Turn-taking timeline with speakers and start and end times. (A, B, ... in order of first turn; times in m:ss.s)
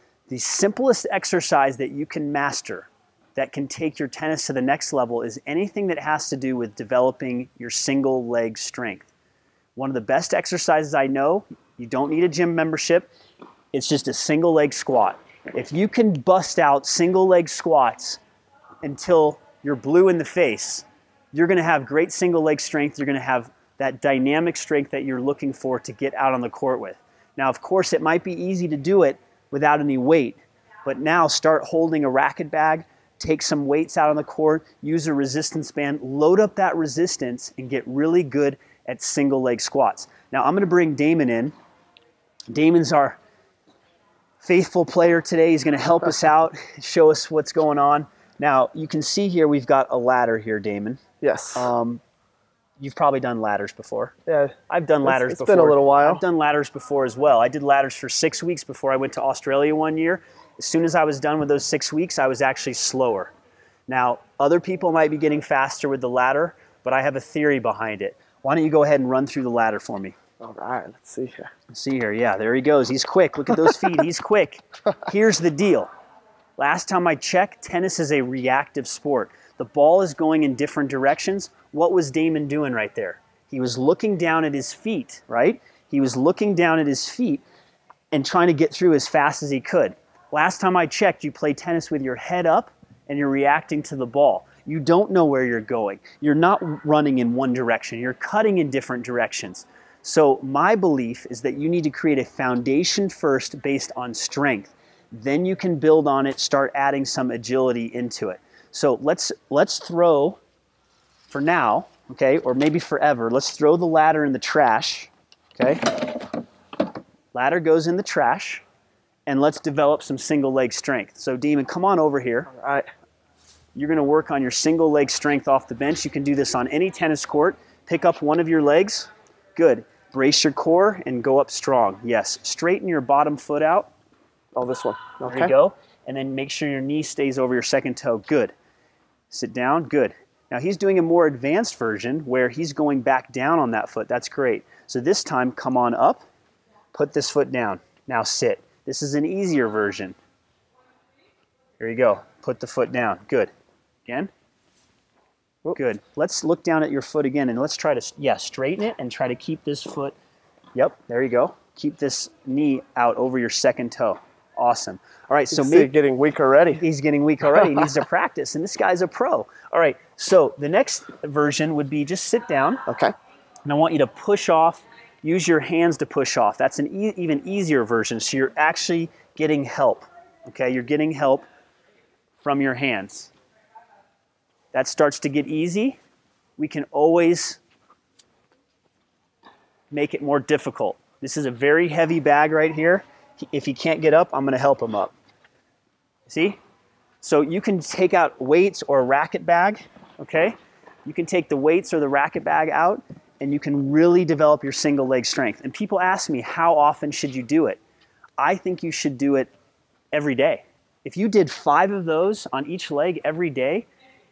0:00.3-0:09.1 A
0:09.8-0:13.1 A
0:13.7-0:18.2 A
0:18.8-0:41.5 A
0:42.5-0:43.2 A
0:44.4-0:51.0 A
0:51.2-0:51.7 B
0:51.5-0:52.0 A
0:52.8-0:54.1 A
0:54.3-0:54.5 B
0:54.7-1:03.3 A
0:55.0-0:56.2 B
1:03.9-1:10.2 A
1:10.4-1:11.5 B
1:11.7-1:15.9 A
1:16.6-1:27.4 A
1:28.1-1:50.4 A
1:51.3-1:56.2 A
1:57.3-1:58.6 A
1:59.2-2:02.5 A
2:02.5-2:02.9 B
2:03.7-2:13.9 A
2:14.5-2:15.5 B
2:15.2-2:18.5 A
2:19.3-2:26.2 A
2:26.9-2:30.1 A
2:31.8-2:33.5 A
2:35.7-2:40.1 A
2:40.7-2:45.9 A
2:45.5-2:46.8 B
2:46.7-2:52.8 A
2:52.9-2:53.1 B
2:53.6-3:01.4 A
3:02.4-3:03.3 A
3:04.7-3:06.0 A
3:06.6-3:07.6 A
3:09.9-3:15.1 A
3:16.3-3:16.6 A
3:17.2-3:27.8 A
3:28.4-3:29.5 A
3:30.1-3:33.9 A